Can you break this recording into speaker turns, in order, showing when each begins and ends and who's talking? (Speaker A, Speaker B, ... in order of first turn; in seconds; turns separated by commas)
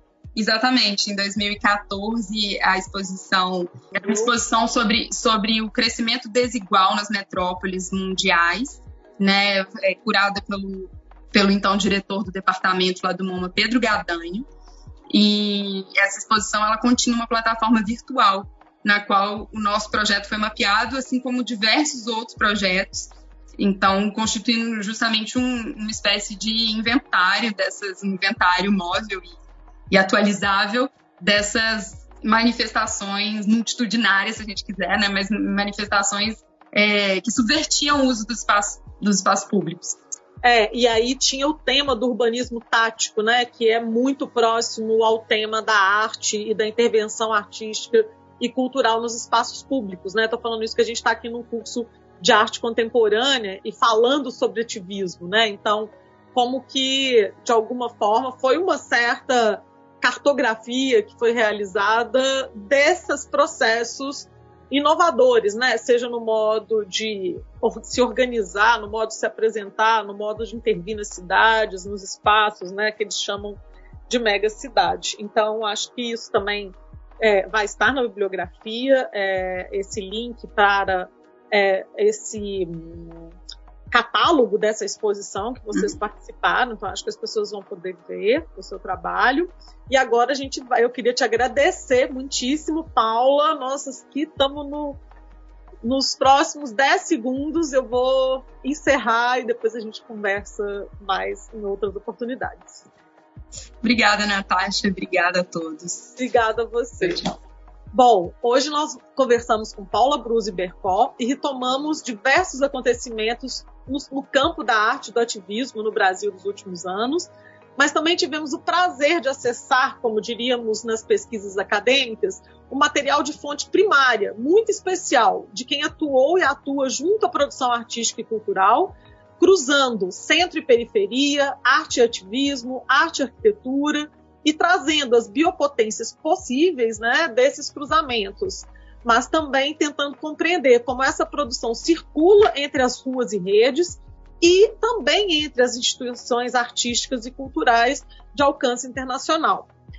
Speaker A: 0.3-14.4, Speaker B: 4.0-4.3, Speaker A: 15.1-29.4, Speaker A: 29.9-40.0, Speaker B: 40.4-83.3, Speaker B: 83.9-95.0, Speaker B: 95.8-102.9, Speaker A: 103.8-106.2, Speaker B: 106.2-149.7